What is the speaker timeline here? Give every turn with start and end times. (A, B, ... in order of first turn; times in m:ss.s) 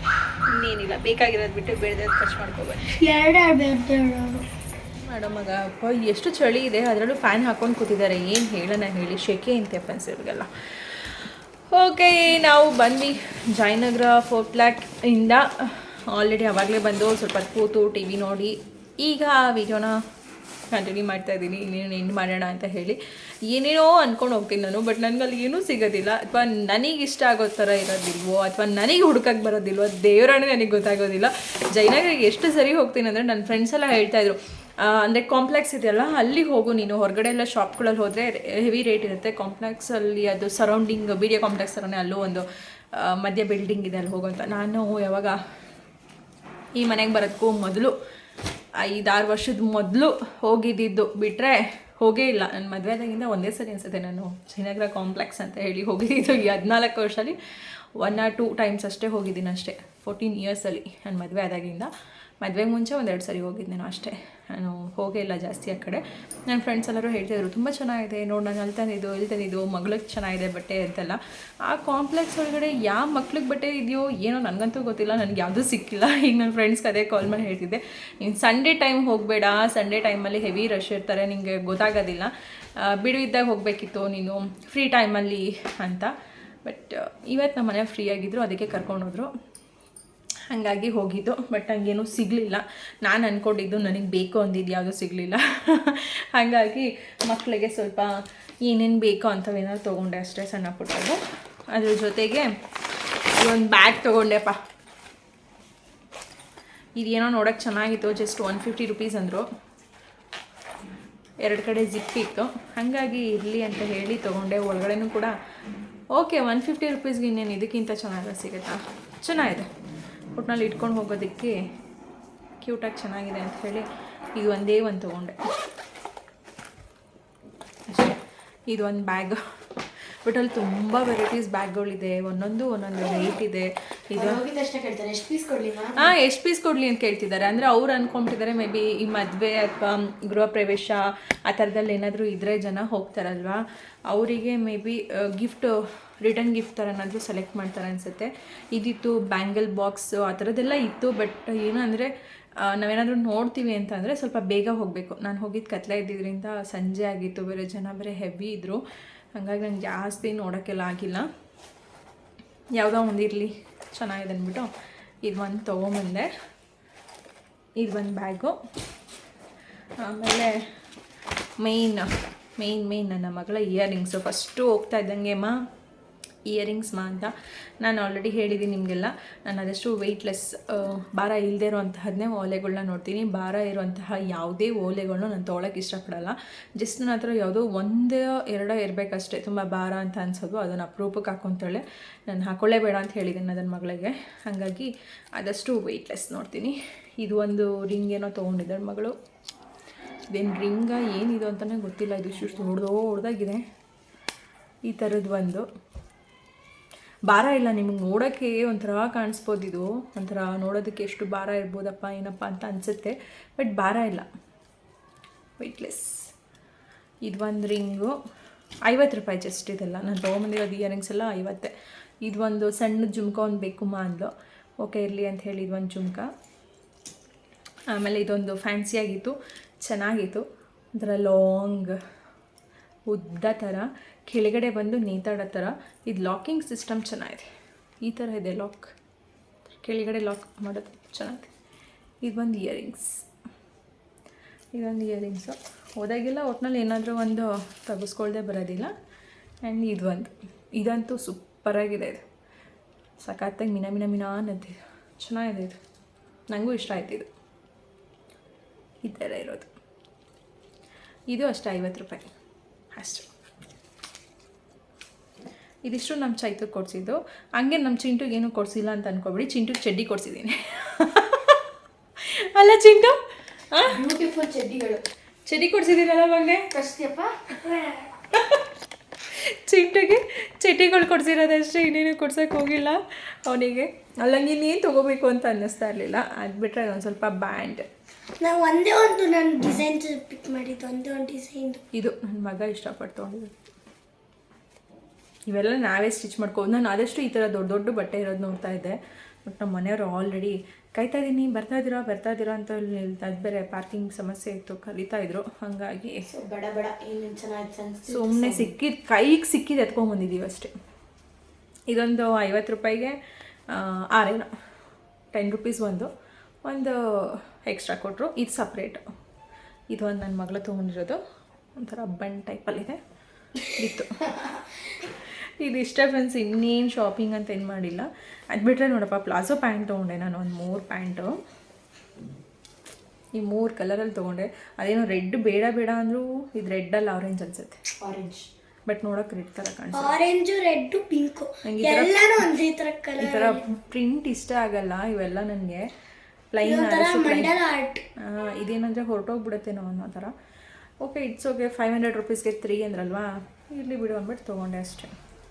0:00.5-0:02.9 A
0:02.9-0:04.4 B
0:05.0-0:20.0 A
0:20.7-0:45.4 A
0:46.8-0:47.9 A
0:48.8-0:57.4 A
0:58.0-1:01.9 A
1:02.4-1:26.1 A
1:26.7-1:29.3 A
1:30.5-1:38.1 A
1:38.6-1:41.2 A
1:41.7-1:42.5 A
1:43.4-1:44.6 A
1:47.0-1:49.5 A
1:51.4-1:55.3 A
1:56.2-1:59.7 A
2:00.4-2:01.6 A
2:02.6-2:05.4 A
2:07.9-2:08.2 A
2:08.7-2:09.4 A
2:10.2-2:14.4 A
2:14.2-2:16.1 C
2:16.0-2:32.1 A
2:32.6-2:38.8 A
2:39.4-2:41.3 A
2:42.8-2:44.7 A
2:45.2-2:46.3 A
2:47.8-2:48.6 A
2:50.0-2:50.6 A
2:51.6-2:55.6 A
2:56.5-3:19.2 A
3:20.3-3:23.6 A
3:24.9-3:25.6 A
3:27.3-3:34.3 A
3:35.6-3:36.3 A
3:37.2-3:38.1 A
3:38.9-3:41.7 A
3:42.2-3:44.3 A
3:44.8-3:46.3 A
3:47.9-3:50.4 A
3:51.0-3:52.0 A
3:53.1-3:57.5 A
3:58.0-3:58.9 A
3:59.8-4:01.5 A
4:02.2-4:03.2 A
4:04.8-4:08.9 A
4:09.6-4:12.2 A
4:13.2-4:15.8 A
4:16.5-4:17.3 A
4:19.0-4:19.7 A
4:21.3-4:22.3 A
4:23.0-4:23.3 A
4:25.8-4:31.6 A
4:32.6-4:33.2 A
4:33.7-4:34.0 A
4:33.9-4:35.0 C
4:35.5-4:36.7 A
4:36.7-4:37.3 C
4:39.6-4:47.8 A
4:48.4-4:51.8 B
4:51.9-4:53.5 A
4:55.5-5:06.2 A
5:06.3-5:08.7 C
5:08.1-5:10.7 A
5:11.9-5:13.2 A
5:13.7-5:14.5 A
5:15.3-5:16.1 A
5:16.6-5:19.0 A
5:19.9-5:21.2 A
5:21.8-5:23.0 A
5:23.7-5:24.3 A
5:25.6-5:31.4 A
5:33.4-5:37.8 A
5:38.0-5:38.5 C
5:38.9-5:40.2 A
5:39.9-5:43.6 B
5:41.6-5:42.4 A
5:43.2-5:45.9 A
5:46.5-5:47.6 A
5:46.6-5:48.0 B
5:48.2-5:50.3 A
5:51.0-5:55.1 A